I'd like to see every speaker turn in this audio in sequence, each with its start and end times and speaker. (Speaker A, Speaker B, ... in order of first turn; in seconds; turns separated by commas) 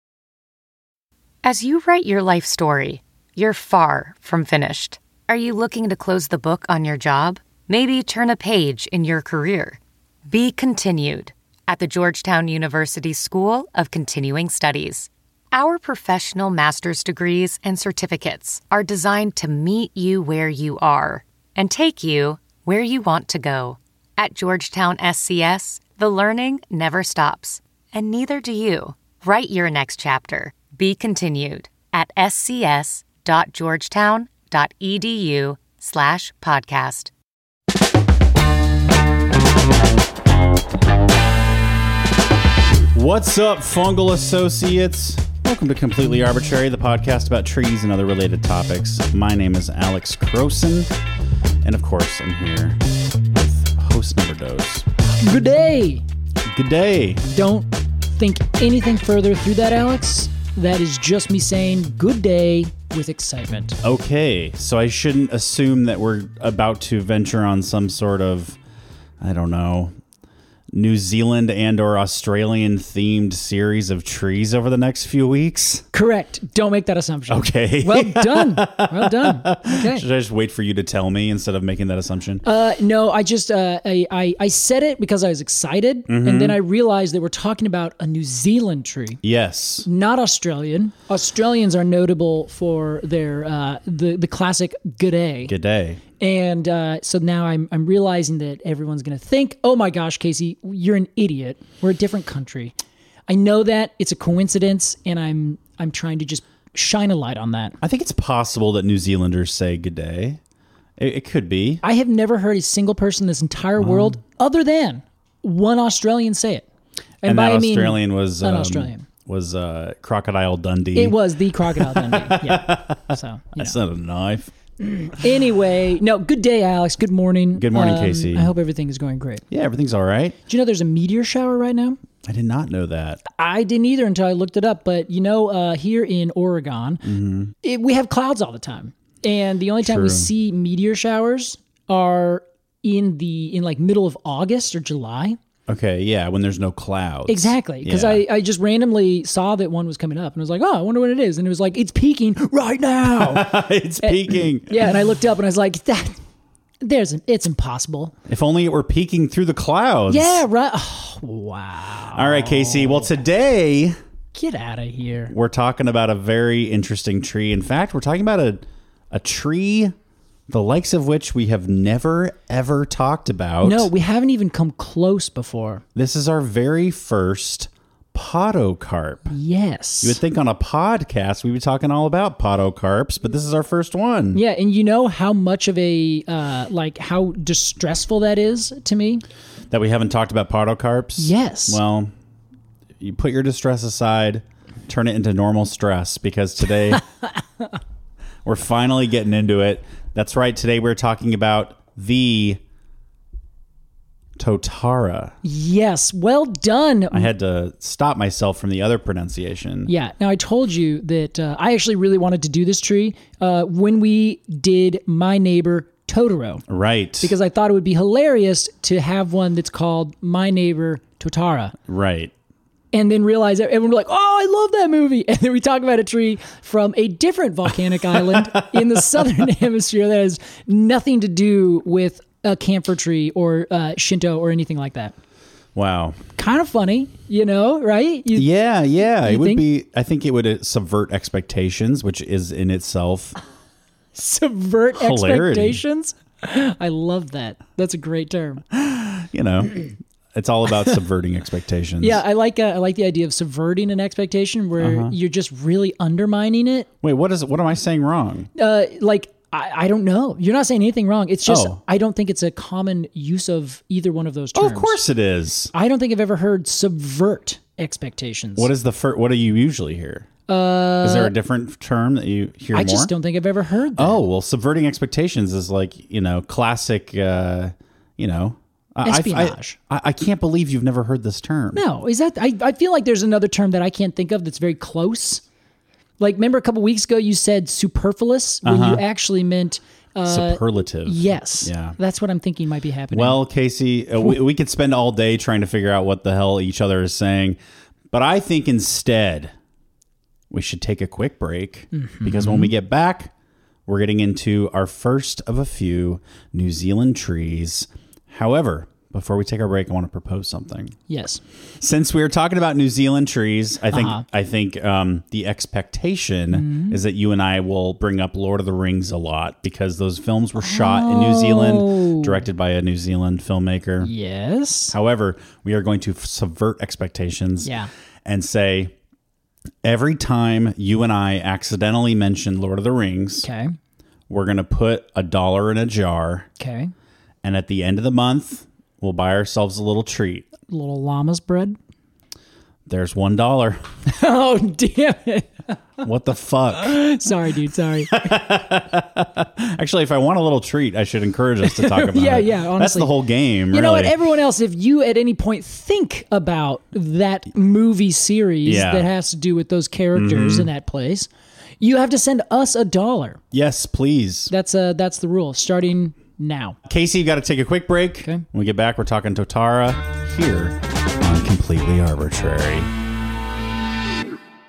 Speaker A: 1.4-37.1, Speaker B: 42.9-50.9, Speaker B: 51.6-52.8, Speaker B: 53.3-54.9, Speaker C: 55.2-56.0, Speaker B: 56.5-57.2, Speaker C: 57.3-63.8, Speaker B: 63.8-68.6, Speaker B: 69.2-69.9, Speaker B: 70.7-75.8, Speaker C: 75.9-80.0, Speaker B: 77.3-82.4, Speaker C: 82.4-89.2, Speaker B: 86.1-86.6, Speaker B: 89.2-89.9, Speaker C: 89.8-95.5, Speaker B: 95.5-96.0, Speaker C: 96.2-102.8, Speaker C: 103.3-107.8, Speaker B: 107.8-110.4, Speaker B: 111.0-111.8, Speaker C: 111.8-116.7, Speaker B: 113.8-114.2, Speaker C: 117.2-119.1, Speaker B: 117.2-124.5, Speaker C: 121.0-123.8, Speaker C: 124.8-129.4, Speaker B: 127.5-128.5, Speaker B: 129.5-130.4, Speaker C: 130.5-132.0, Speaker B: 132.2-133.2, Speaker C: 133.3-137.1, Speaker B: 137.0-137.5, Speaker C: 137.6-145.4, Speaker B: 139.8-140.3, Speaker B: 145.7-148.2, Speaker C: 147.3-156.2, Speaker B: 153.1-154.9, Speaker C: 156.8-158.1, Speaker B: 158.3-160.4, Speaker C: 160.1-163.1, Speaker B: 162.1-164.0, Speaker C: 164.3-165.3, Speaker B: 165.3-169.9, Speaker B: 170.5-173.9, Speaker C: 173.6-175.8, Speaker B: 175.9-179.3, Speaker C: 179.3-180.2, Speaker B: 180.0-184.4, Speaker C: 184.3-189.2, Speaker B: 189.7-192.1, Speaker C: 191.2-191.8, Speaker B: 193.0-197.0, Speaker B: 198.4-202.6, Speaker B: 204.4-205.4, Speaker C: 205.4-207.3, Speaker B: 207.1-209.9, Speaker C: 209.9-216.6, Speaker B: 216.7-217.3, Speaker C: 217.2-221.8, Speaker B: 221.9-222.3, Speaker C: 222.9-235.2, Speaker B: 228.0-229.0, Speaker B: 235.8-236.2, Speaker C: 236.4-238.5, Speaker B: 238.3-243.4, Speaker C: 239.2-239.6, Speaker C: 244.2-248.7, Speaker B: 244.9-245.8, Speaker B: 248.7-252.2, Speaker C: 252.0-256.9, Speaker B: 254.8-255.2, Speaker B: 257.0-258.5, Speaker C: 258.6-265.0, Speaker B: 261.4-261.8, Speaker B: 264.6-265.7, Speaker C: 265.7-268.7, Speaker B: 268.6-270.3, Speaker C: 270.5-271.3, Speaker B: 271.0-273.1, Speaker C: 272.7-274.2, Speaker B: 274.0-281.8, Speaker C: 279.0-279.8, Speaker C: 281.7-285.4, Speaker C: 286.2-293.4, Speaker B: 288.6-289.0, Speaker B: 290.3-292.0, Speaker B: 293.1-297.6, Speaker B: 298.1-299.5, Speaker B: 300.5-303.3, Speaker C: 301.9-302.7, Speaker B: 303.9-311.0, Speaker C: 311.1-311.4, Speaker B: 311.8-324.1, Speaker C: 313.9-314.2, Speaker C: 316.5-317.0, Speaker C: 320.6-322.4, Speaker C: 324.0-324.9, Speaker B: 324.9-327.7, Speaker B: 328.2-328.9, Speaker B: 329.8-333.5, Speaker C: 333.4-333.7, Speaker B: 334.3-336.5, Speaker C: 336.6-336.9, Speaker B: 337.4-340.5, Speaker C: 340.7-341.8, Speaker B: 342.9-343.8, Speaker C: 344.1-345.8, Speaker B: 346.0-347.0, Speaker C: 346.8-348.6, Speaker B: 348.1-354.1, Speaker C: 351.6-353.1, Speaker C: 353.7-361.3, Speaker B: 358.6-359.1, Speaker B: 360.1-360.7, Speaker C: 361.8-363.4, Speaker B: 363.5-364.5, Speaker C: 364.5-366.8, Speaker B: 366.9-372.9